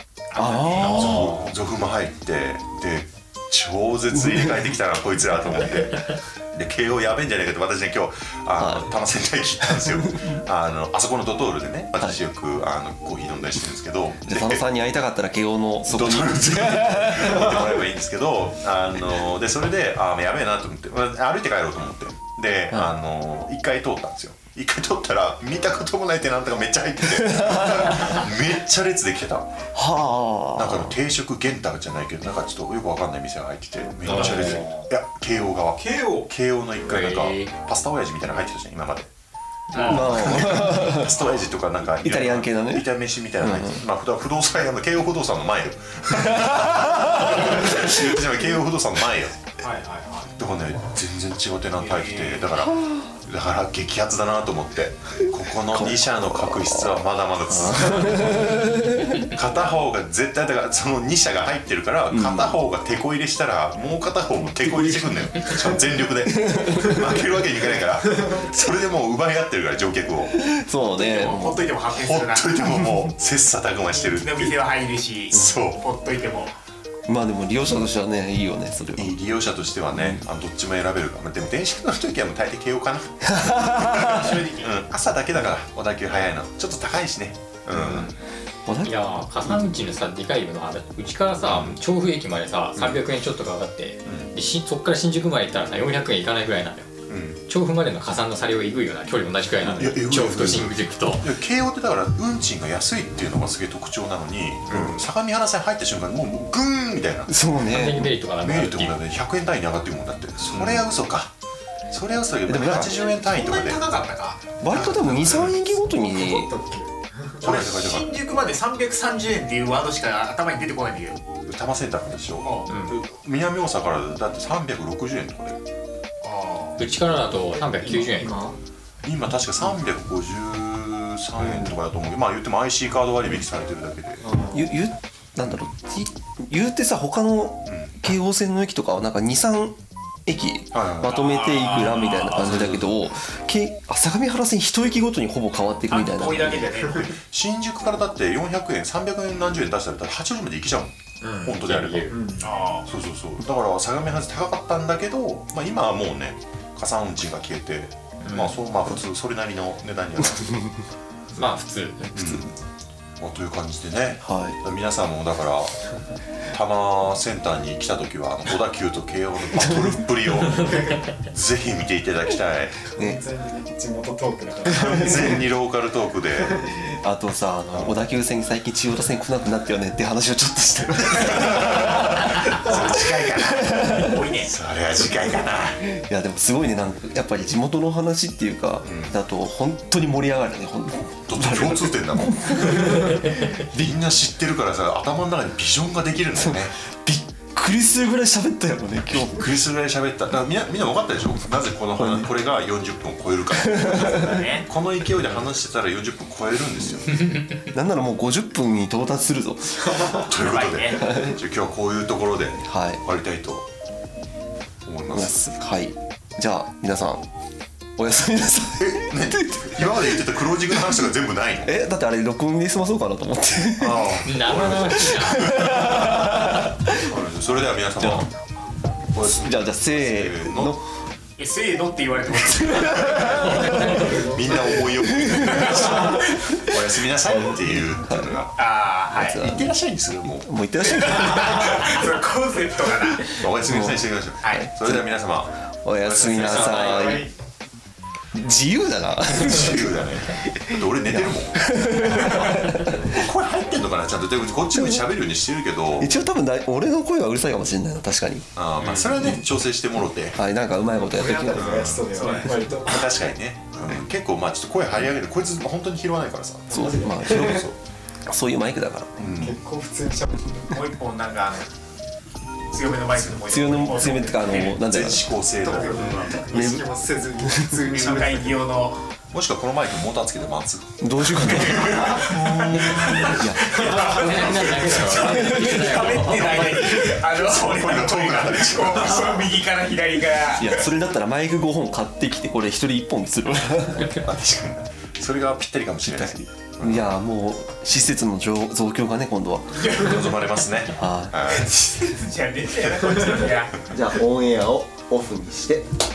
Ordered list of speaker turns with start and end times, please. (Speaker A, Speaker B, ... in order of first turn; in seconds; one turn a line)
Speaker A: 0.3-1.5
Speaker B: 0.3-1.4
Speaker C: 0.8-14.6
Speaker B: 4.2-4.5
Speaker B: 8.6-8.9
Speaker B: 9.7-10.4
Speaker B: 14.2-17.8
Speaker C: 15.8-29.7
Speaker B: 27.2-28.1
Speaker B: 29.7-31.0
Speaker C: 30.6-39.1
Speaker D: 34.0-34.8
Speaker A: 34.0-34.8
Speaker A: 35.8-36.3
Speaker D: 36.9-37.5
Speaker A: 39.7-40.6
Speaker D: 39.7-40.1
Speaker C: 39.8-49.4
Speaker B: 39.8-41.2
Speaker B: 42.0-43.8
Speaker B: 46.1-48.2
Speaker A: 49.6-50.3
Speaker C: 50.4-70.4
Speaker A: 51.8-52.4
Speaker B: 52.5-53.1
Speaker B: 55.7-56.6
Speaker B: 57.5-59.3
Speaker B: 62.1-62.6
Speaker B: 64.7-65.6
Speaker B: 66.2-67.2
Speaker B: 70.3-71.7
Speaker A: 70.9-72.6
Speaker C: 71.9-74.5
Speaker A: 74.0-76.5
Speaker C: 75.3-75.8
Speaker B: 77.1-79.1
Speaker C: 79.0-88.1
Speaker B: 79.9-80.2
Speaker B: 83.2-84.2
Speaker A: 83.8-84.8
Speaker D: 87.7-88.2
Speaker B: 88.7-88.9
Speaker D: 88.8-96.9
Speaker C: 91.4-91.8
Speaker C: 94.0-94.3
Speaker C: 97.1-97.4
Speaker D: 97.5-101.3
Speaker C: 99.7-107.5
Speaker B: 107.3-108.1
Speaker D: 107.6-109.0
Speaker C: 108.4-111.3
Speaker D: 110.5-110.8
Speaker C: 111.9-113.8
Speaker B: 112.5-113.0
Speaker A: 113.1-114.5
Speaker B: 114.6-116.5
Speaker C: 114.7-115.7
Speaker E: 116.2-117.4
Speaker C: 117.4-118.1
Speaker A: 117.4-121.2
Speaker C: 121.4-125.6
Speaker A: 122.4-122.7
Speaker D: 122.7-122.9
Speaker A: 126.2-126.8
Speaker D: 126.8-128.5
Speaker E: 127.6-128.6
Speaker C: 129.0-134.2
Speaker E: 134.2-134.6
Speaker B: 134.5-146.6
Speaker C: 137.7-138.0
Speaker C: 140.7-141.8
Speaker A: 141.0-142.7
Speaker C: 142.3-142.9
Speaker A: 145.9-147.1
Speaker C: 146.8-152.1
Speaker D: 151.4-152.2
Speaker E: 152.1-152.6
Speaker A: 152.4-152.9
Speaker C: 152.8-160.6
Speaker D: 158.2-158.6
Speaker D: 161.3-162.4
Speaker C: 162.1-162.6
Speaker C: 163.2-165.8
Speaker B: 164.2-164.6
Speaker C: 166.5-172.9
Speaker B: 169.5-170.0
Speaker D: 170.6-171.1
Speaker E: 172.9-175.4
Speaker B: 173.0-173.2
Speaker C: 174.7-176.6
Speaker B: 174.7-175.2
Speaker B: 176.7-184.2
Speaker C: 177.7-178.0
Speaker C: 181.0-185.8
Speaker A: 183.8-184.5
Speaker B: 185.8-193.9
Speaker C: 188.8-189.2
Speaker C: 191.2-196.7
Speaker B: 196.4-199.6
Speaker C: 199.2-207.3
Speaker B: 202.0-202.3
Speaker B: 203.6-204.4
Speaker A: 204.1-204.7
Speaker D: 207.1-207.5
Speaker B: 207.7-210.2
Speaker C: 210.0-213.7
Speaker A: 210.4-211.2
Speaker B: 210.9-211.4
Speaker B: 212.6-213.0
Speaker C: 214.8-215.5
Speaker B: 215.1-217.2
Speaker B: 218.0-221.0
Speaker C: 218.8-221.7
Speaker B: 221.7-227.1
Speaker C: 223.8-228.3
Speaker D: 224.2-225.8
Speaker B: 228.0-228.3
Speaker C: 229.1-230.8
Speaker B: 229.2-230.8
Speaker A: 231.4-234.7
Speaker C: 232.7-240.6
Speaker B: 233.0-234.2
Speaker B: 235.0-238.4
Speaker A: 235.4-236.2
Speaker A: 238.6-239.4
Speaker B: 239.2-239.7
Speaker B: 240.4-242.0
Speaker A: 240.8-243.4
Speaker C: 241.1-241.9
Speaker C: 243.3-247.2
Speaker B: 243.6-245.1
Speaker B: 245.8-247.3
Speaker A: 246.2-247.3
Speaker B: 248.3-253.2
Speaker C: 249.3-256.1
Speaker B: 254.7-255.1
Speaker B: 256.0-258.5
Speaker C: 258.6-260.4
Speaker D: 258.8-259.2
Speaker B: 259.2-259.5
Speaker B: 260.3-261.8
Speaker A: 261.1-262.7
Speaker E: 261.2-263.1
Speaker C: 261.5-267.8
Speaker B: 266.7-267.7
Speaker E: 266.8-267.6
Speaker B: 268.2-269.3
Speaker C: 269.2-269.6
Speaker E: 269.3-270.7
Speaker A: 270.7-271.7
Speaker A: 272.7-274.8
Speaker C: 273.1-273.7
Speaker B: 273.5-275.2
Speaker C: 274.7-276.3
Speaker E: 275.6-278.6
Speaker A: 275.8-276.5
Speaker B: 276.5-276.9
Speaker B: 277.4-277.9
Speaker A: 277.9-279.0
Speaker C: 279.3-285.7
Speaker B: 281.0-284.1
Speaker A: 281.3-290.8
Speaker D: 283.7-286.8
Speaker B: 285.1-286.1
Speaker C: 286.2-289.7
Speaker B: 290.6-294.2
Speaker C: 294.1-297.1
Speaker B: 296.1-300.0
Speaker A: 299.7-300.4
Speaker C: 299.9-301.7
Speaker B: 300.9-301.6
Speaker A: 301.5-303.9
Speaker B: 303.9-305.9